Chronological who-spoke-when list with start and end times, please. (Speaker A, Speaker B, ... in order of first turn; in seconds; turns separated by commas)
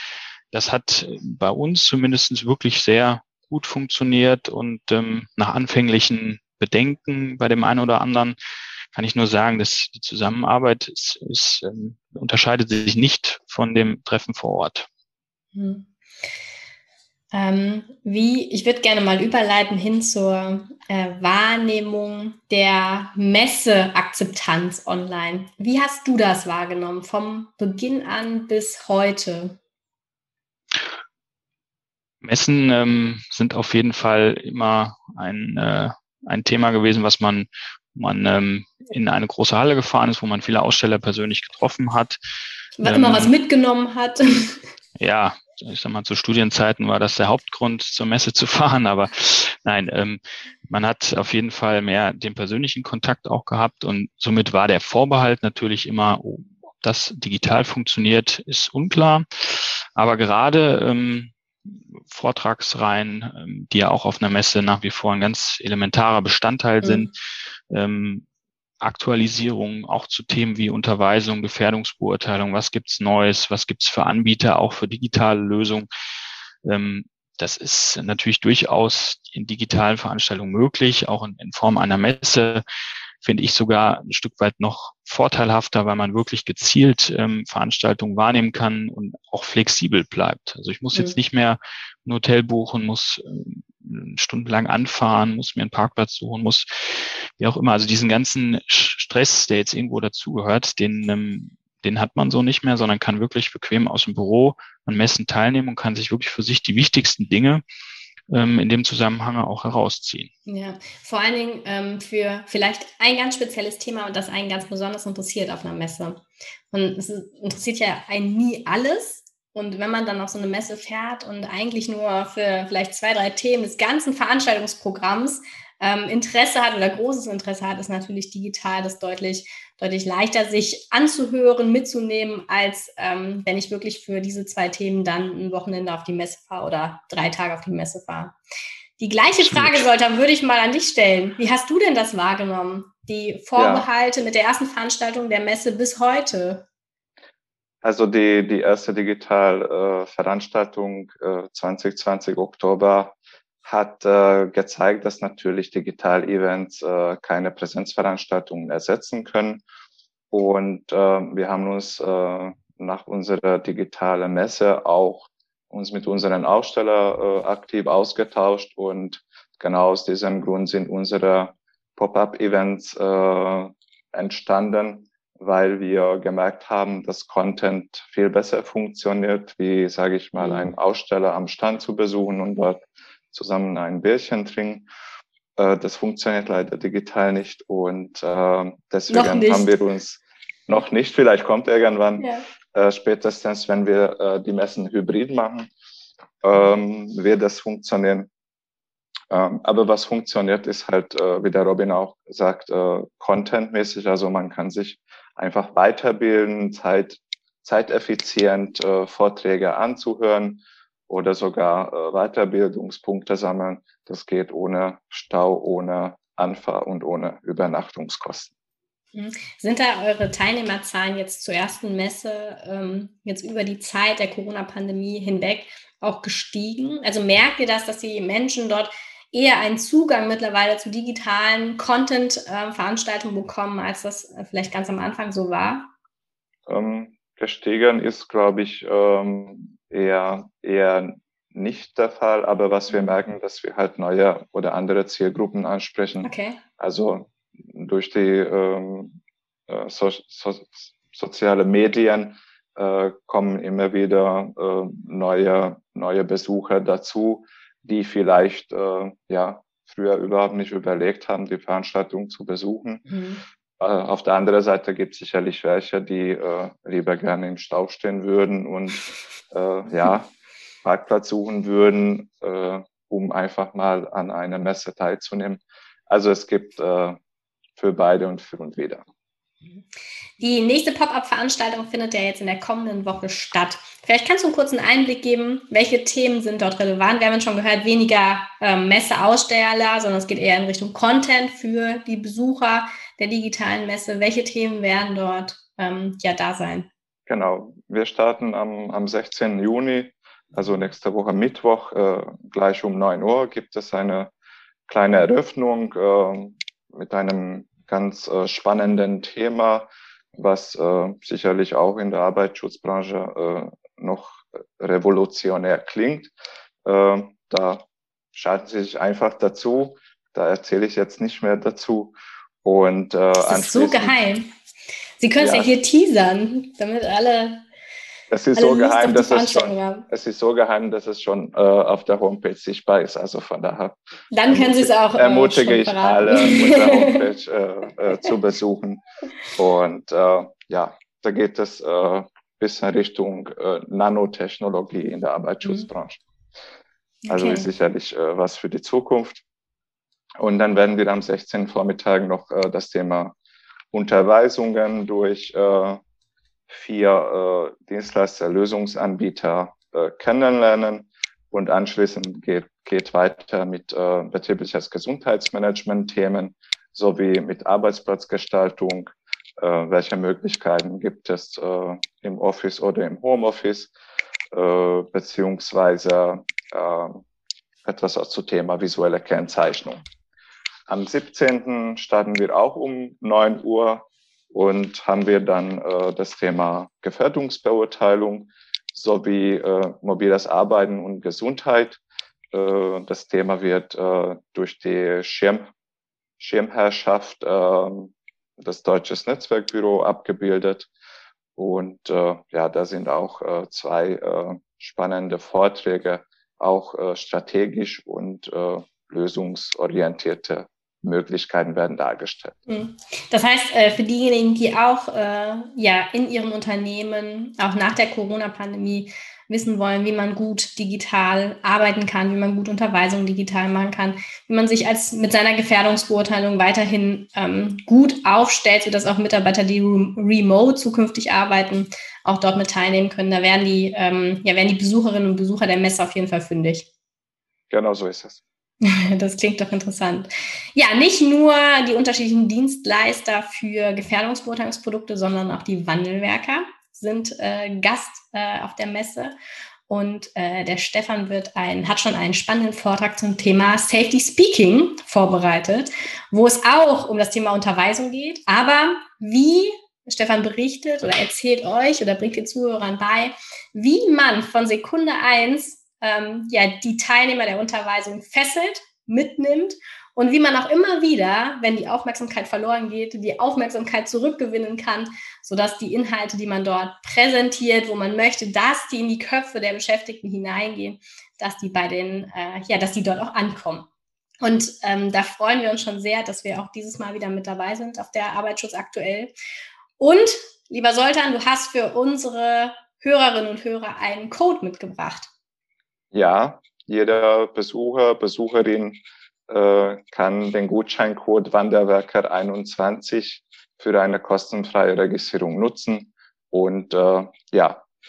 Speaker A: 0.5-8.4, Speaker A: 8.9-14.9, Speaker B: 15.5-15.9, Speaker B: 17.3-29.6, Speaker A: 32.2-42.2, Speaker B: 42.8-44.6, Speaker A: 42.8-43.3, Speaker A: 45.0-67.1, Speaker B: 66.8-67.1, Speaker A: 67.7-68.2, Speaker A: 68.8-75.9, Speaker A: 76.6-82.6, Speaker A: 83.2-107.6, Speaker A: 108.3-110.3, Speaker B: 110.5-138.4, Speaker B: 139.0-146.7, Speaker A: 139.4-139.8, Speaker C: 143.6-143.8, Speaker C: 147.8-159.6, Speaker C: 160.3-184.9, Speaker B: 180.4-180.7, Speaker C: 185.6-195.7, Speaker B: 189.1-189.7, Speaker B: 192.2-192.4, Speaker C: 196.4-198.3, Speaker C: 199.3-218.5, Speaker B: 219.1-235.9, Speaker C: 236.7-249.2, Speaker B: 242.9-243.2, Speaker B: 246.2-246.6, Speaker C: 249.7-263.0, Speaker B: 263.1-263.4, Speaker C: 263.8-270.3, Speaker C: 270.8-277.2, Speaker C: 277.8-279.0, Speaker B: 280.4-296.9, Speaker C: 297.3-304.3, Speaker C: 304.9-316.3, Speaker C: 316.8-324.1, Speaker B: 323.4-324.5, Speaker B: 325.2-327.6, Speaker C: 325.4-325.7, Speaker C: 328.3-339.0, Speaker B: 328.6-330.1, Speaker B: 334.3-337.2, Speaker C: 339.6-346.2, Speaker B: 347.2-347.7, Speaker C: 347.3-349.4, Speaker C: 350.4-353.3, Speaker C: 353.9-356.0, Speaker C: 356.7-373.9, Speaker C: 374.5-377.2, Speaker C: 377.8-380.0, Speaker C: 380.9-392.0, Speaker C: 392.5-395.7, Speaker C: 396.4-400.9, Speaker C: 401.6-412.6, Speaker B: 412.7-436.9, Speaker C: 437.7-438.4, Speaker B: 438.8-449.4, Speaker B: 449.9-483.9, Speaker B: 484.4-489.3, Speaker B: 490.0-495.3, Speaker C: 496.1-507.8